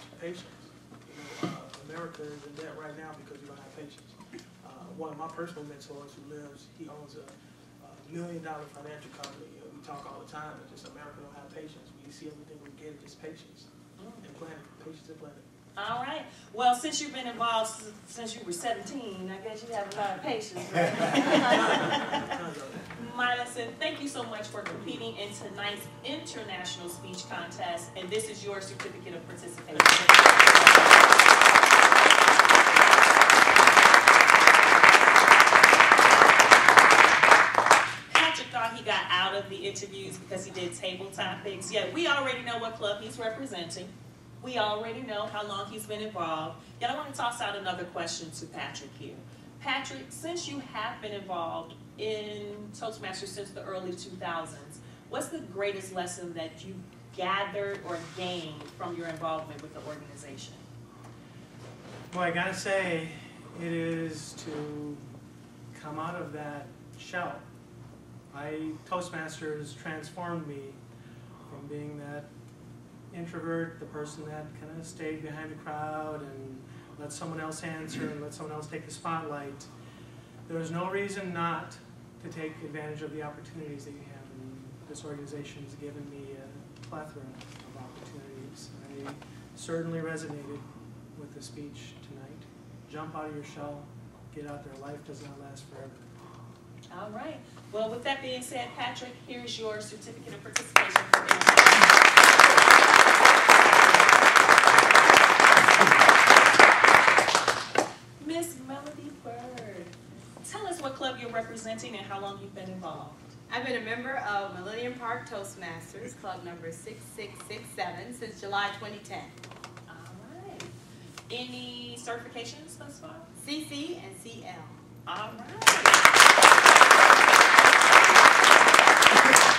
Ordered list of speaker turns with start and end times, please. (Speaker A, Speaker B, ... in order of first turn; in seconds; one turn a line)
Speaker A: 0.2-13.7
Speaker B: 14.0-14.3
Speaker A: 14.2-15.5
Speaker B: 15.8-22.2
Speaker A: 21.3-22.9
Speaker B: 23.0-31.1
Speaker A: 29.7-30.9
Speaker B: 38.1-60.6
Speaker C: 62.1-65.0
Speaker C: 65.7-67.4
Speaker C: 68.3-70.8
Speaker C: 71.5-72.3
Speaker C: 73.1-79.7
Speaker C: 80.5-90.6
Speaker C: 91.2-96.1
Speaker B: 96.9-102.0
Speaker B: 108.2-113.3
Speaker D: 113.5-119.3
Speaker B: 119.9-120.7
Speaker B: 121.3-123.3
Speaker D: 123.4-124.8
Speaker B: 125.1-126.1